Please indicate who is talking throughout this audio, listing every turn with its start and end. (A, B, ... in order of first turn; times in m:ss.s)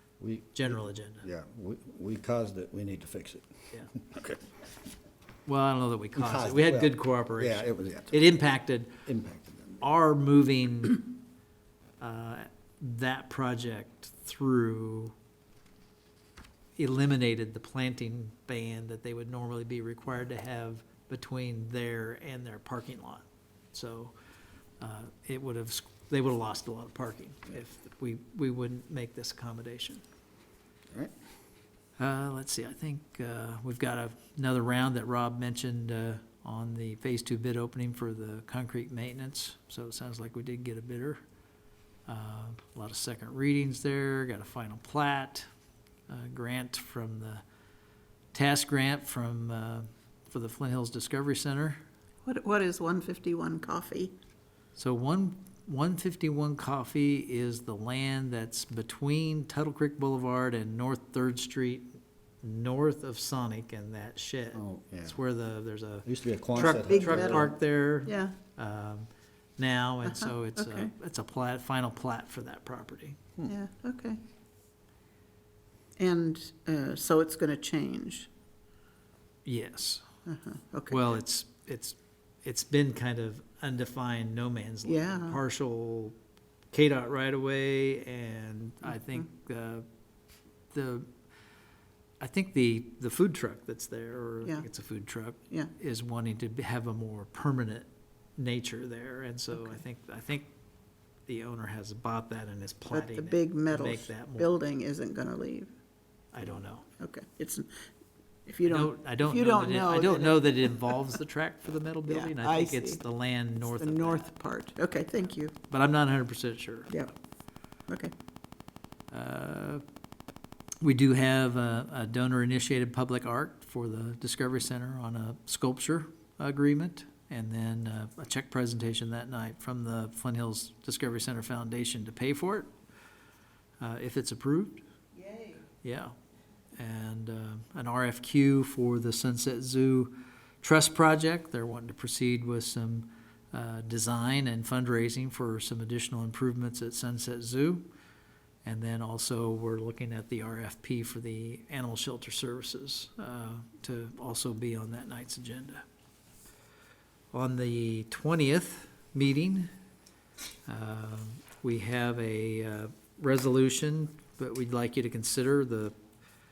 0:00.2-0:04.4 A
0:00.5-0:01.3 B
0:05.5-0:09.0 B
0:06.2-0:08.4 A
0:09.0-0:09.8 A
0:09.8-0:11.1 B
0:12.0-0:15.2 B
0:16.8-0:24.1 B
0:24.8-0:30.0 B
0:32.0-0:41.2 B
0:42.1-0:45.5 B
0:46.1-0:47.4 B
0:48.3-0:51.8 B
0:52.2-0:54.1 C
0:54.8-1:01.9 B
1:02.4-1:13.2 B
1:04.6-1:05.2 A
1:06.0-1:07.6 A
1:06.6-1:07.5 C
1:08.1-1:08.4 C
1:10.1-1:10.9 C
1:13.5-1:14.2 C
1:16.0-1:18.3 C
1:19.4-1:20.0 B
1:20.3-1:21.2 C
1:20.9-1:26.2 B
1:24.9-1:25.4 C
1:26.7-1:29.9 B
1:30.7-1:31.1 B
1:32.2-1:40.5 B
1:39.5-1:39.8 C
1:41.3-1:44.5 B
1:42.9-1:45.7 C
1:46.3-1:46.9 B
1:47.0-1:47.7 C
1:48.5-1:51.1 C
1:48.6-1:54.3 B
1:52.1-1:53.0 C
1:53.6-1:55.6 C
1:55.7-1:56.9 B
1:59.1-1:59.8 B
2:00.8-2:12.7 B
2:13.8-2:14.8 B
2:15.1-2:15.7 C
2:15.8-2:16.1 B
2:16.8-2:27.9 B
2:28.6-2:35.8 B
2:37.3-2:39.7 B
2:40.7-2:46.0 B